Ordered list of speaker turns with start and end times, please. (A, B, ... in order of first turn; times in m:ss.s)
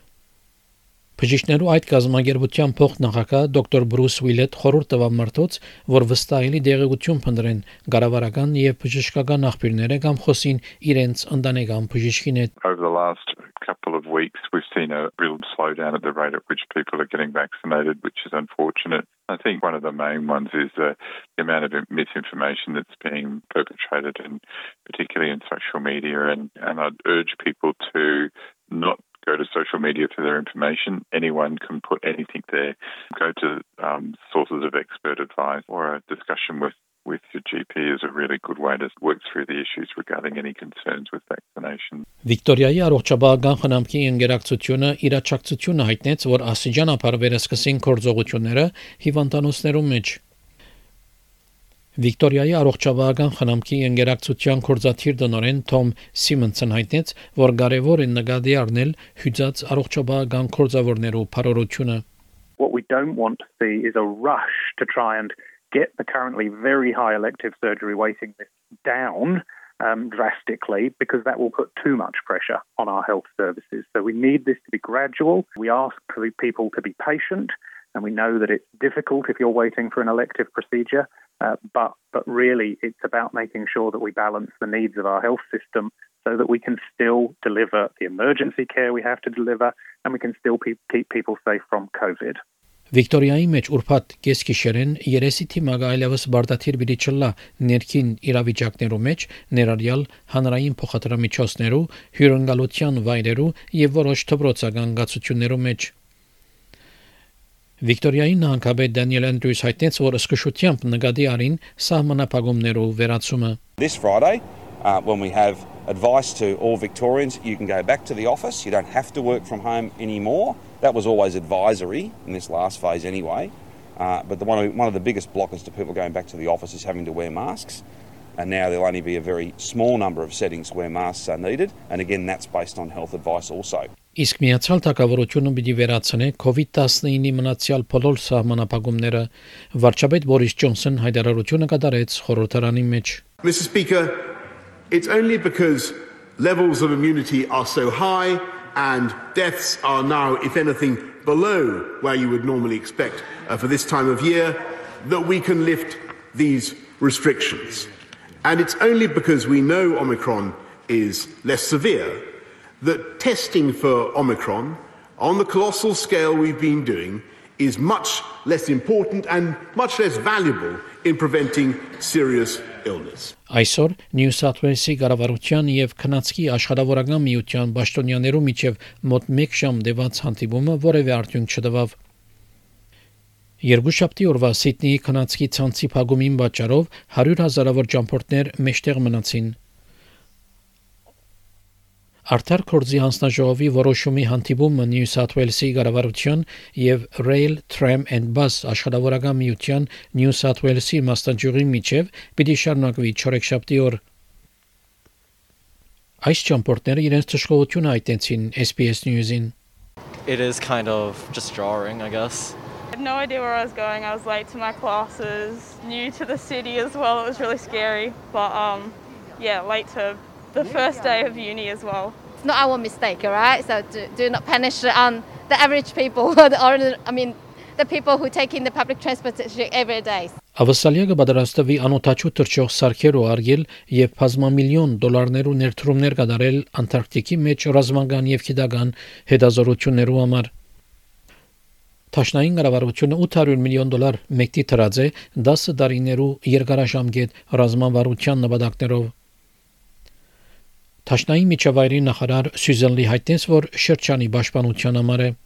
0:01.2-0:12.5 A
0:12.6-0:42.0 B
0:42.2-0:50.2 A
0:52.0-1:02.0 A
1:02.6-1:32.4 C
1:32.9-1:45.9 A
1:47.8-1:53.6 A
1:53.8-2:07.8 D
2:08.4-2:13.9 D
2:14.2-2:23.2 A
2:23.4-2:24.2 E
2:24.9-2:37.9 E
2:38.4-2:42.2 E
2:42.8-2:53.3 E
2:53.5-3:02.0 A
3:03.6-3:09.6 A
3:12.3-3:24.0 A
3:26.2-3:29.5 A
3:30.2-3:32.6 F
3:32.9-3:42.2 G
3:42.4-3:50.3 H
3:50.6-4:00.5 A
4:02.1-4:09.1 A
4:11.1-4:15.4 A